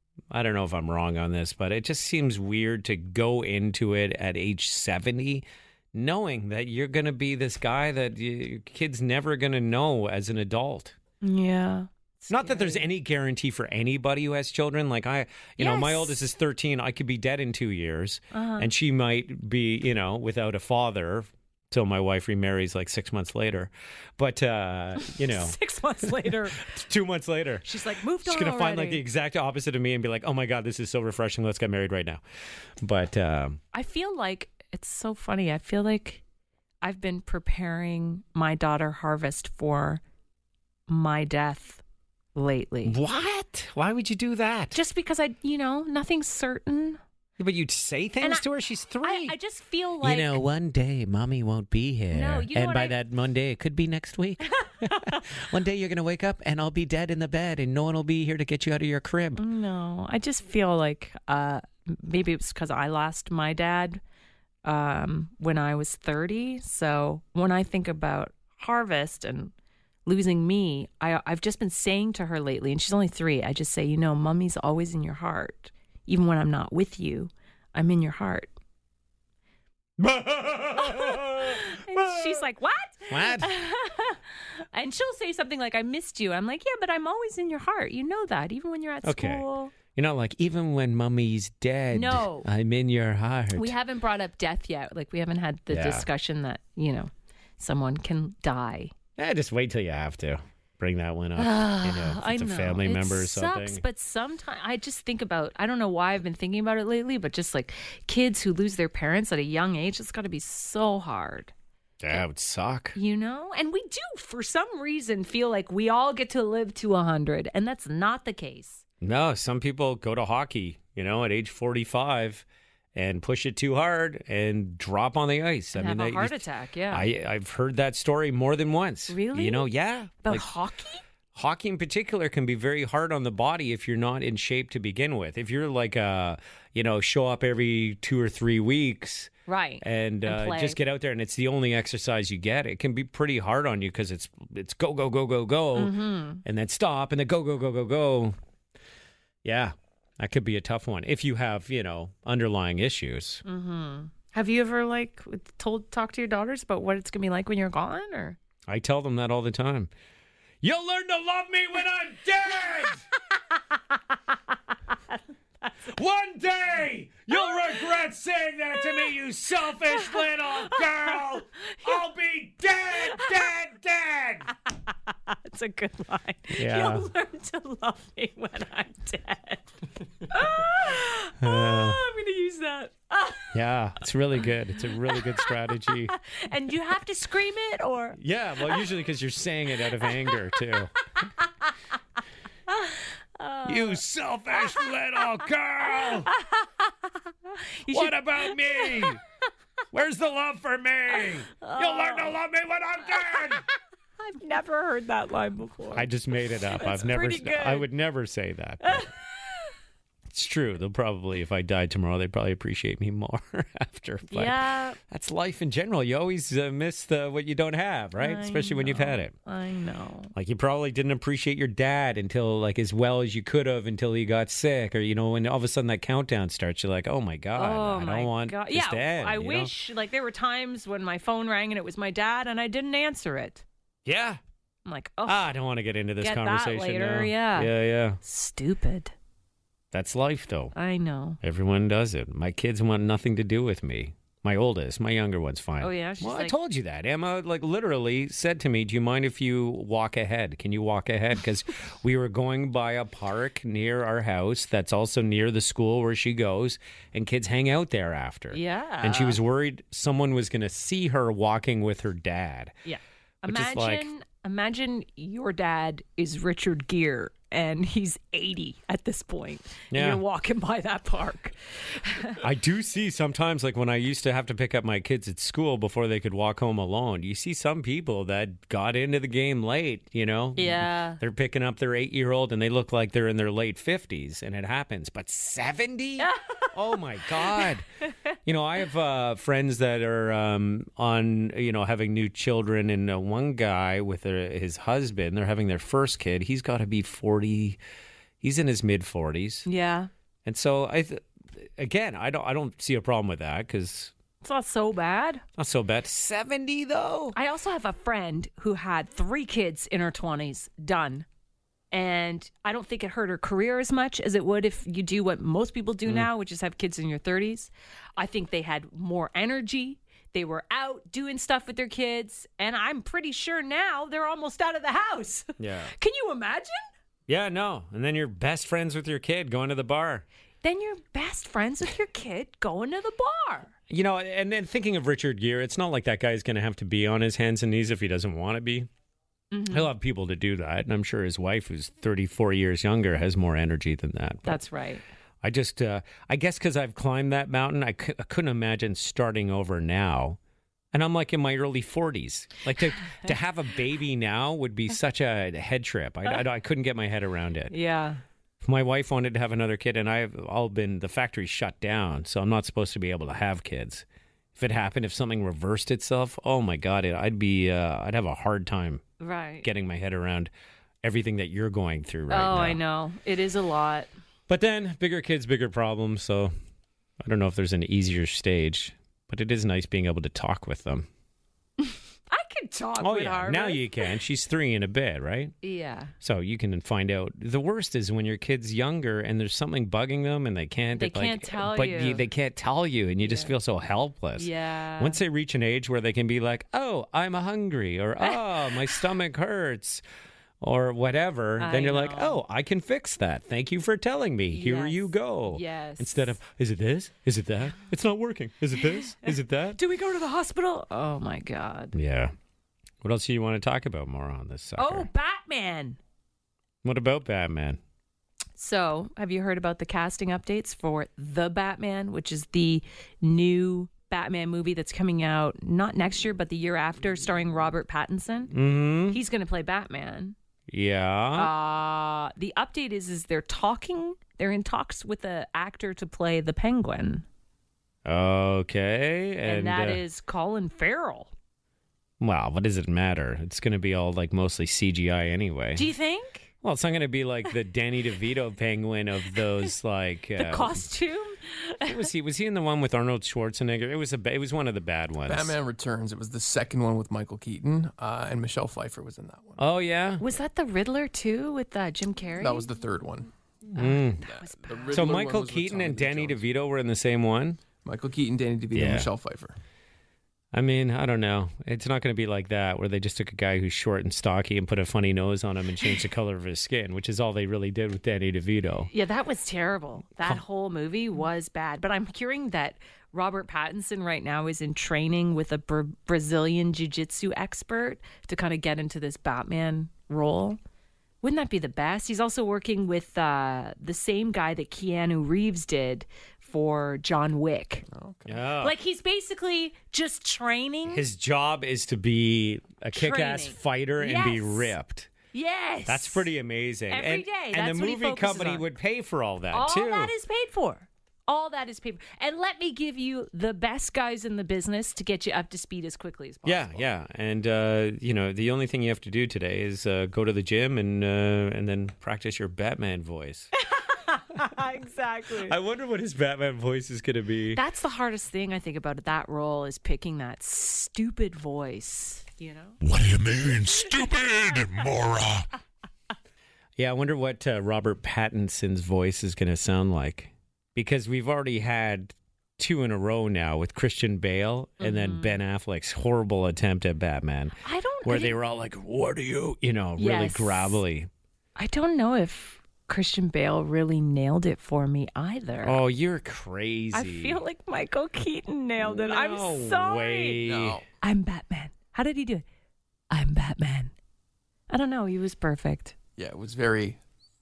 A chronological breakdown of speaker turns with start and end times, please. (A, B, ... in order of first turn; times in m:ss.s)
0:00.3-0:11.0 A
0:11.2-0:12.8 B
0:12.3-0:27.7 A
0:15.6-0:16.1 B
0:18.3-0:18.7 B
0:25.0-0:26.6 B
0:27.6-0:29.0 B
0:28.2-0:32.2 A
0:32.8-0:33.6 A
0:33.7-0:36.2 B
0:36.8-0:40.0 B
0:40.9-0:41.8 B
0:42.3-0:43.0 B
0:42.8-0:44.8 A
0:44.7-0:47.0 B
0:47.4-0:49.3 A
0:49.0-0:50.4 B
0:50.0-0:59.4 A
0:52.1-0:52.9 B
0:54.6-0:55.2 B
0:59.4-1:04.0 B
1:04.6-1:09.5 B
1:10.0-1:18.5 B
1:20.0-1:22.4 A
1:20.8-1:29.7 B
1:23.1-1:23.5 A
1:29.0-1:33.7 A
1:31.9-1:32.5 B
1:33.5-1:38.9 B
1:35.7-1:36.1 A
1:39.2-1:43.8 A
1:41.4-1:51.5 B
1:52.0-1:53.0 A
1:52.9-1:58.8 B
1:59.0-2:10.4 A
2:05.7-2:07.1 B
2:09.1-2:09.7 B
2:10.2-2:11.0 B
2:11.3-2:28.4 A
2:19.5-2:20.8 B
2:25.7-2:26.4 B
2:29.4-2:33.4 A
2:33.4-2:38.4 B
2:38.7-2:39.9 A
2:40.6-2:43.0 A
2:45.9-2:54.5 A
2:50.1-2:51.1 B
2:55.3-2:59.7 B
2:56.5-2:57.1 A
3:00.2-3:03.5 B
3:01.4-3:02.0 A
3:03.5-3:06.1 A
3:05.0-3:08.8 B
3:08.2-3:10.9 A
3:12.7-3:14.0 B
3:13.6-3:16.3 A
3:16.0-3:19.2 B
3:17.9-3:19.2 A
3:19.9-3:23.6 A
3:21.6-3:22.4 B
3:24.2-3:26.1 B
3:25.9-3:29.1 A
3:26.7-3:27.9 B
3:28.8-3:29.7 B
3:30.3-3:39.3 A
3:34.3-3:35.0 B
3:38.2-3:40.3 B
3:40.3-3:49.7 A
3:47.5-3:53.6 B
3:54.0-3:54.4 A
3:54.8-3:55.5 B
3:55.2-3:58.2 A
3:56.2-3:59.1 B
3:59.9-4:00.7 A
4:00.7-4:01.4 B
4:01.4-4:22.7 A
4:05.8-4:06.5 B
4:18.5-4:19.4 B
4:22.8-4:32.4 B
4:23.4-4:24.1 A
4:29.9-4:30.2 A
4:32.4-4:47.8 A
4:40.6-4:41.2 B
4:46.2-4:46.7 B
4:47.4-4:47.7 B
4:48.4-4:57.8 A
4:58.4-4:59.7 A
4:59.6-5:00.1 B
5:00.4-5:04.1 A
5:04.4-5:05.4 B
5:05.6-5:07.4 A
5:07.3-5:11.2 B
5:11.9-5:26.8 B
5:25.6-5:25.9 A
5:27.3-5:30.2 A
5:30.6-5:33.7 B
5:33.9-5:38.9 A
5:39.5-5:39.9 B
5:39.7-5:44.6 A
5:44.4-5:45.0 B
5:45.4-5:50.4 A
5:50.9-5:57.7 A
5:57.7-5:58.2 B
5:58.6-6:09.0 A
6:09.2-6:09.7 B
6:09.6-6:10.5 A
6:11.0-6:12.8 A
6:12.3-6:14.1 B
6:14.5-6:16.5 A
6:17.2-6:21.1 A
6:21.8-6:24.1 B
6:23.0-6:25.5 A
6:25.6-6:26.1 B
6:26.2-6:40.0 A
6:31.0-6:32.2 B
6:33.2-6:33.5 B
6:34.4-6:35.2 B
6:40.6-6:49.8 A
6:41.6-6:42.4 B
6:44.5-6:46.4 B
6:49.2-6:51.9 B
6:51.9-6:52.3 A
6:53.0-6:55.1 A
6:54.8-6:56.0 B
6:56.8-6:57.8 A
6:58.6-7:10.4 B
7:08.5-7:09.2 A
7:10.7-7:11.5 A
7:11.3-7:17.2 B
7:18.0-7:20.0 A
7:19.4-7:21.3 B
7:22.2-7:25.9 A
7:25.7-7:26.5 B
7:26.6-7:30.8 A
7:30.4-7:32.1 B
7:31.8-7:35.5 A
7:35.2-7:39.6 C
7:39.6-7:40.2 A
7:40.2-7:42.7 B
7:42.4-7:43.3 C
7:43.7-7:44.2 A
7:43.8-7:45.2 B
7:44.2-7:46.4 C
7:44.9-7:47.6 A
7:47.7-7:49.5 C
7:48.7-7:49.1 A
7:50.5-7:58.9 A
7:58.9-8:10.6 B
8:11.2-8:17.8 B
8:17.9-8:18.4 C
8:18.3-8:18.8 A
8:18.6-8:21.0 B
8:20.9-8:25.1 A
8:22.9-8:24.7 B
8:25.3-8:26.3 B
8:25.9-8:30.1 A
8:26.9-8:28.7 B
8:29.5-8:36.8 B
8:36.4-8:43.5 A
8:43.6-8:45.6 B
8:45.4-8:47.6 A
8:47.5-8:55.1 B
8:52.8-8:55.3 D
8:56.8-9:11.1 A
9:04.8-9:05.4 B
9:07.6-9:08.4 B
9:10.0-9:10.8 B
9:11.6-9:15.8 B
9:15.6-9:17.4 A
9:16.9-9:20.4 B
9:18.8-9:20.8 A
9:20.4-9:20.8 C
9:21.0-9:22.4 B
9:23.1-9:23.9 B
9:24.7-9:25.9 B
9:26.2-9:27.0 C